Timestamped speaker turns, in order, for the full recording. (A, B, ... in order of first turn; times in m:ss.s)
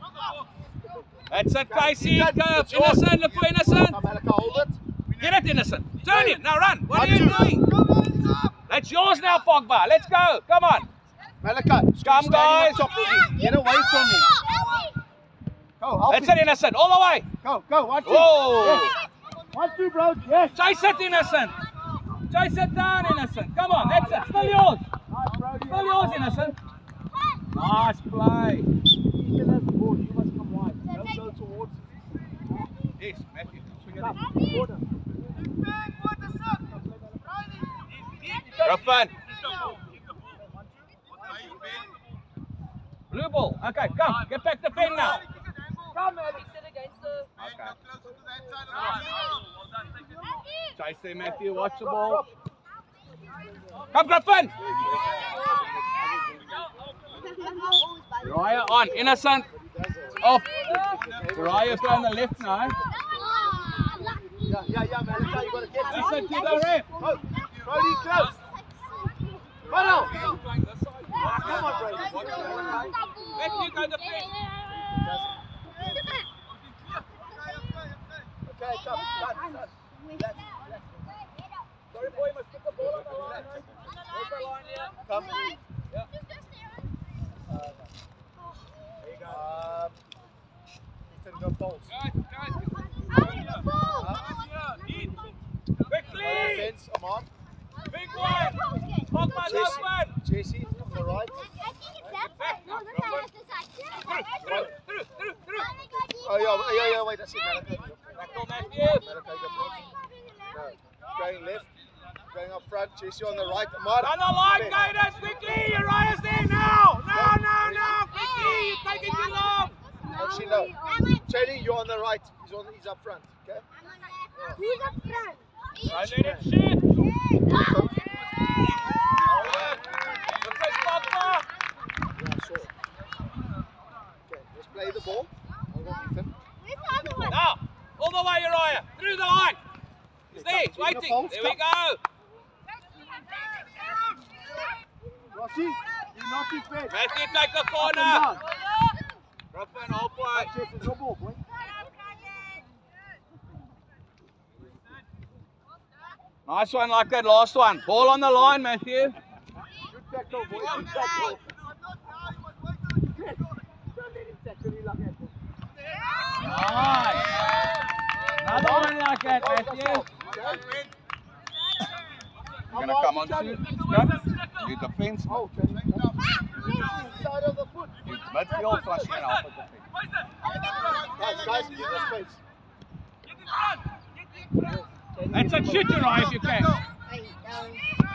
0:01.3-0:04.0 A
0:01.6-0:04.8 B
0:05.2-0:07.6 A
0:06.1-0:07.6 B
0:08.7-0:10.9 A
0:11.4-0:14.3 B
0:12.0-0:12.9 A
0:12.8-0:14.9 C
0:15.8-0:16.4 B
0:16.1-0:17.3 A
0:17.4-0:18.9 B
0:18.0-0:19.0 A
0:19.5-0:20.6 B
0:20.6-0:21.6 A
0:22.3-0:24.8 A
0:23.7-0:26.6 B
0:25.6-0:26.6 A
0:27.5-0:28.7 A
0:29.1-0:31.9 B
0:30.9-0:31.4 C
0:33.0-0:34.2 A
0:34.0-0:34.8 B
0:38.6-0:39.1 A
0:43.1-0:45.2 A
0:45.9-0:47.1 B
0:47.4-0:47.8 A
0:48.7-0:49.0 B
0:50.1-0:50.4 C
0:50.8-0:52.2 A
0:51.2-0:52.3 B
0:53.9-0:55.3 A
0:54.6-0:56.5 B
0:57.2-0:59.2 C
0:58.2-0:59.5 A
0:59.7-1:00.3 B
1:00.2-1:00.5 A
1:00.7-1:01.0 C
1:00.8-1:02.8 B
1:01.2-1:02.8 A
1:02.9-1:10.3 C
1:04.4-1:08.4 B
1:05.8-1:06.9 A
1:09.6-1:10.4 B
1:10.0-1:14.3 A
1:11.2-1:12.9 B
1:11.3-1:14.8 C
1:14.7-1:16.0 B
1:15.7-1:16.3 C
1:17.4-1:17.7 C
1:18.4-1:21.1 B
1:18.7-1:20.6 C
1:21.2-1:21.6 C
1:21.9-1:24.9 A
1:23.2-1:23.4 B
1:25.0-1:25.6 C
1:25.0-1:25.5 B
1:27.5-1:27.9 B
1:29.0-1:29.5 A
1:29.2-1:30.0 B
1:31.1-1:31.9 B
1:31.9-1:33.5 A
1:33.0-1:35.3 C
1:34.0-1:34.3 B
1:35.9-1:36.8 A
1:36.2-1:37.3 B
1:37.9-1:40.2 A
1:38.1-1:39.8 C
1:39.4-1:41.4 B
1:41.1-1:44.7 C
1:42.4-1:43.3 A
1:44.0-1:45.7 A
1:44.4-1:44.7 B
1:45.7-1:46.8 C
1:46.0-1:48.0 B
1:48.2-1:49.0 A
1:49.0-1:49.8 B
1:49.7-1:50.8 C
1:50.5-1:51.7 B
1:52.3-1:54.8 B
1:54.0-1:59.8 A
1:57.1-1:58.0 B
1:58.4-2:01.3 C
2:00.1-2:03.6 B
2:03.8-2:05.4 C
2:05.8-2:06.5 B
2:05.9-2:07.0 A
2:07.4-2:08.8 C
2:07.5-2:07.9 B
2:09.3-2:11.4 A
2:12.2-2:12.7 B
2:14.3-2:16.3 B
2:16.6-2:17.4 C
2:17.0-2:17.3 B
2:17.3-2:19.6 A
2:20.3-2:22.0 A
2:20.3-2:21.6 B
2:25.3-2:27.0 B
2:26.9-2:28.3 A
2:27.8-2:28.4 B
2:29.5-2:30.5 A
2:30.3-2:31.4 B
2:36.5-2:39.2 A
2:39.9-2:41.4 B
2:40.7-2:41.1 A
2:43.1-2:45.3 B
2:46.4-2:47.3 A
2:48.4-2:50.0 A
2:48.4-2:50.6 B
2:52.7-2:53.7 B
2:52.7-2:55.4 A
2:55.3-2:59.2 B
2:56.6-2:57.1 C
2:58.1-2:59.9 A
3:00.6-3:02.1 C
3:01.1-3:02.4 B
3:04.6-3:06.4 B
3:05.3-3:06.7 A
3:07.1-3:08.0 C